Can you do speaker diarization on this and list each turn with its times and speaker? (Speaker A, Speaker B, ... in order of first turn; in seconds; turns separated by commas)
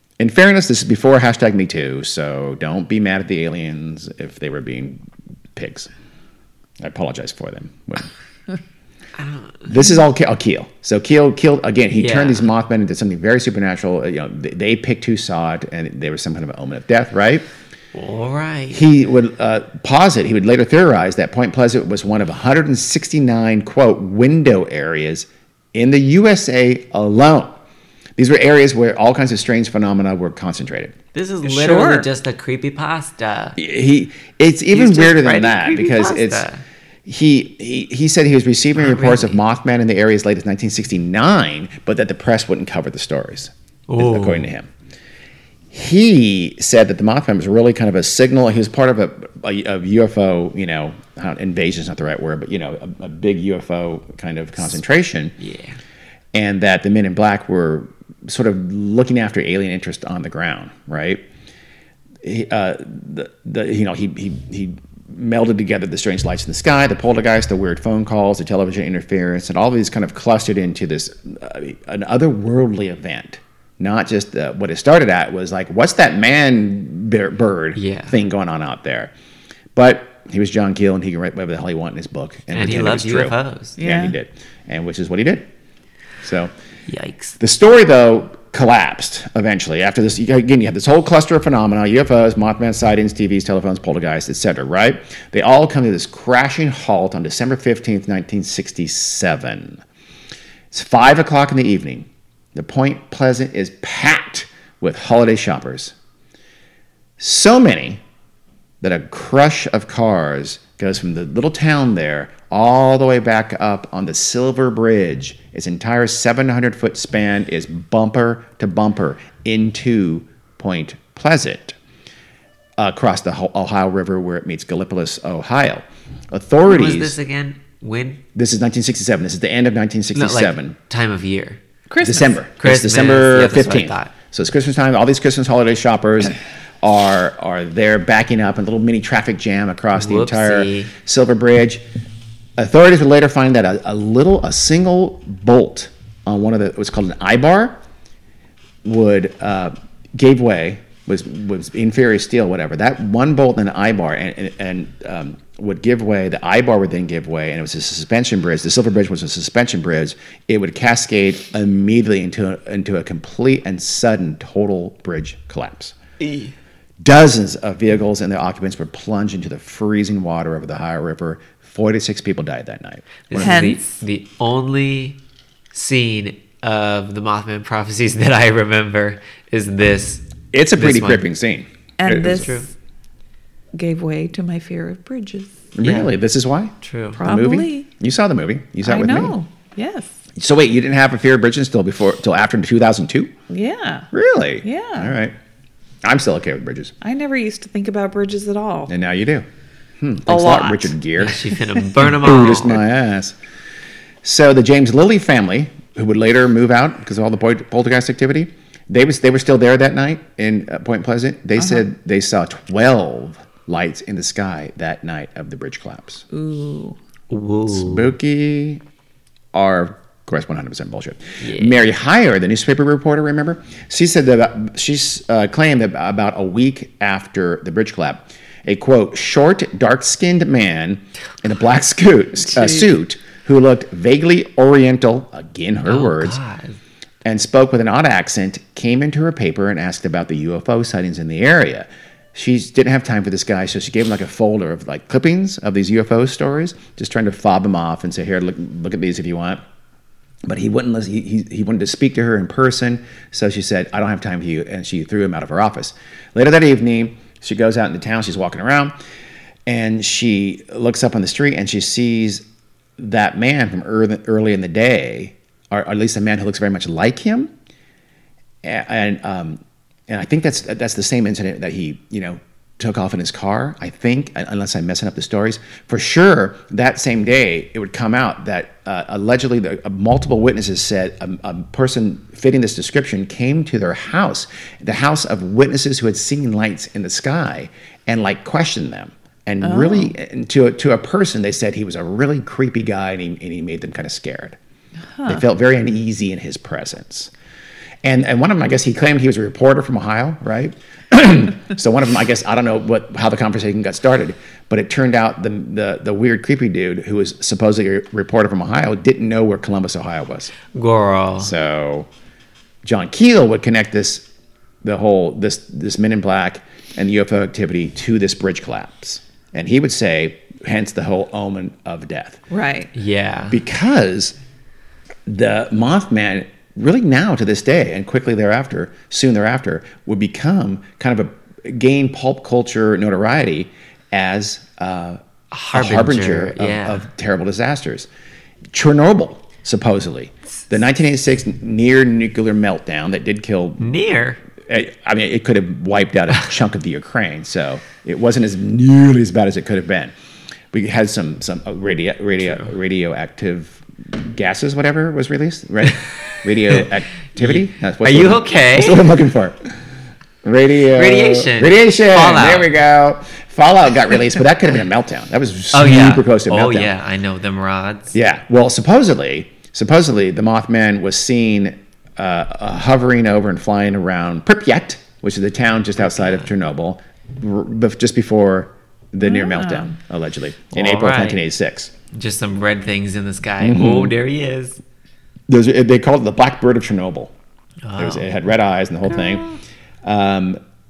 Speaker A: 0.2-5.0, Speaker A: 5.5-5.9, Speaker A: 6.8-8.1, Speaker B: 9.2-9.7, Speaker A: 9.7-17.4, Speaker B: 11.9-12.5, Speaker B: 17.9-18.8, Speaker A: 18.7-27.6, Speaker A: 28.2-30.9, Speaker B: 31.1-33.6, Speaker C: 31.4-32.1, Speaker A: 33.6-36.4, Speaker B: 34.7-36.6, Speaker A: 37.0-44.7, Speaker B: 38.8-39.4, Speaker B: 43.9-44.5, Speaker A: 45.7-55.3, Speaker B: 55.4-55.8, Speaker A: 56.3-61.2, Speaker A: 62.2-79.1, Speaker B: 77.8-78.2, Speaker A: 79.7-85.5, Speaker B: 82.5-83.8, Speaker C: 83.8-84.1, Speaker A: 86.2-86.5, Speaker B: 86.9-87.4, Speaker A: 87.4-99.8, Speaker A: 100.7-105.9, Speaker A: 107.2-108.0, Speaker A: 108.8-121.8, Speaker A: 122.8-127.2, Speaker B: 126.7-128.2, Speaker A: 128.3-130.7, Speaker B: 130.1-131.6, Speaker C: 131.9-132.4, Speaker A: 132.0-141.8, Speaker B: 132.6-134.1, Speaker B: 139.9-140.9, Speaker A: 142.6-147.8, Speaker A: 148.8-165.9, Speaker B: 166.2-166.5, Speaker A: 167.0-173.7, Speaker B: 173.3-175.2, Speaker C: 173.4-173.8, Speaker B: 175.7-180.2, Speaker A: 180.5-182.4, Speaker B: 180.8-181.2, Speaker C: 182.0-182.7, Speaker B: 182.2-182.7, Speaker C: 183.7-185.6, Speaker A: 185.7-189.3, Speaker B: 185.8-186.1, Speaker B: 186.8-187.2, Speaker C: 187.2-187.9, Speaker C: 188.8-190.1, Speaker A: 190.4-193.3, Speaker C: 193.5-194.1, Speaker A: 194.1-195.3, Speaker C: 194.6-195.1, Speaker A: 196.0-196.9, Speaker C: 197.0-198.9, Speaker A: 198.9-199.4, Speaker A: 200.0-203.3, Speaker C: 200.3-200.9, Speaker B: 201.2-202.8, Speaker A: 204.2-216.2, Speaker C: 211.6-211.8, Speaker C: 216.3-217.0, Speaker B: 217.3-218.1, Speaker A: 217.7-218.8, Speaker A: 219.5-236.4, Speaker B: 221.4-221.8, Speaker C: 232.5-232.8, Speaker B: 235.8-236.8, Speaker A: 237.2-249.6, Speaker A: 250.4-258.9, Speaker A: 259.6-262.4, Speaker A: 263.0-267.5, Speaker A: 268.6-294.6, Speaker C: 289.6-290.1, Speaker C: 295.2-295.4, Speaker A: 295.2-297.3, Speaker A: 298.0-310.5, Speaker B: 310.7-311.5, Speaker A: 311.4-312.1, Speaker A: 312.8-314.2, Speaker A: 314.8-322.4, Speaker C: 322.5-322.9, Speaker B: 322.9-323.6, Speaker A: 323.5-324.3, Speaker A: 325.3-335.2, Speaker B: 335.5-337.1, Speaker A: 335.7-338.1, Speaker A: 338.7-343.9, Speaker B: 343.8-344.4, Speaker A: 344.6-350.1, Speaker A: 350.7-359.7, Speaker B: 357.4-359.1, Speaker A: 360.4-366.9, Speaker B: 360.9-362.7, Speaker B: 365.7-368.1, Speaker A: 368.1-381.9, Speaker B: 376.0-376.4, Speaker C: 379.2-379.9, Speaker B: 380.7-381.4, Speaker B: 382.1-384.8, Speaker A: 383.6-384.1, Speaker A: 385.5-387.3, Speaker B: 387.8-388.3, Speaker A: 388.0-389.4, Speaker A: 390.0-390.6